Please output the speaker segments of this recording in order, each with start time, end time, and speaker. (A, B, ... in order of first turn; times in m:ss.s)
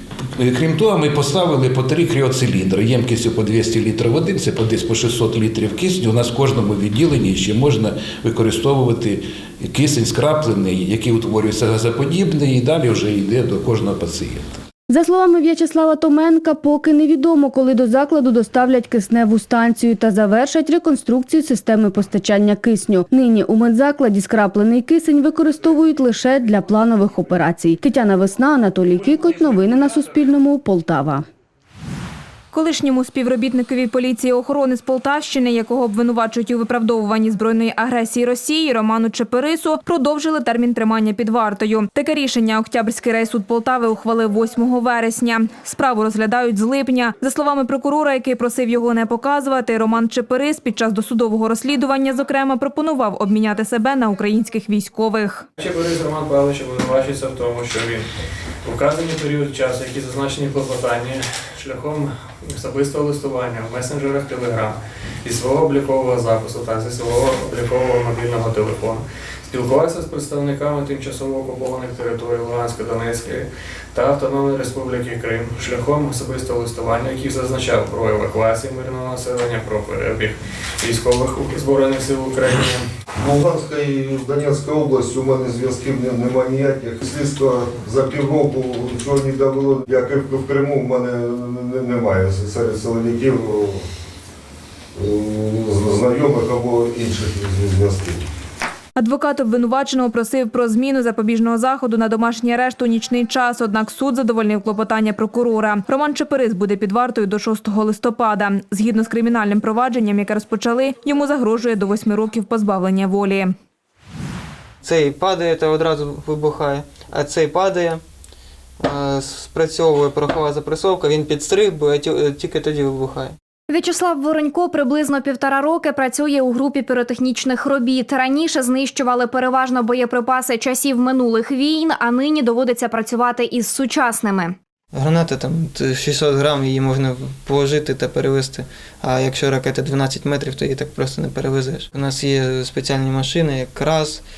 0:00.4-0:14.6 A
0:14.9-0:31.2 B
0:32.5-0:55.4 C
0:55.6-0:58.0 D
0:58.6-1:22.8 D
1:23.2-1:33.8 E
1:35.0-1:38.2 E
1:39.0-1:53.5 C
1:54.8-1:58.0 F
1:58.8-2:03.4 F
2:03.7-2:14.5 G
2:14.9-2:24.2 F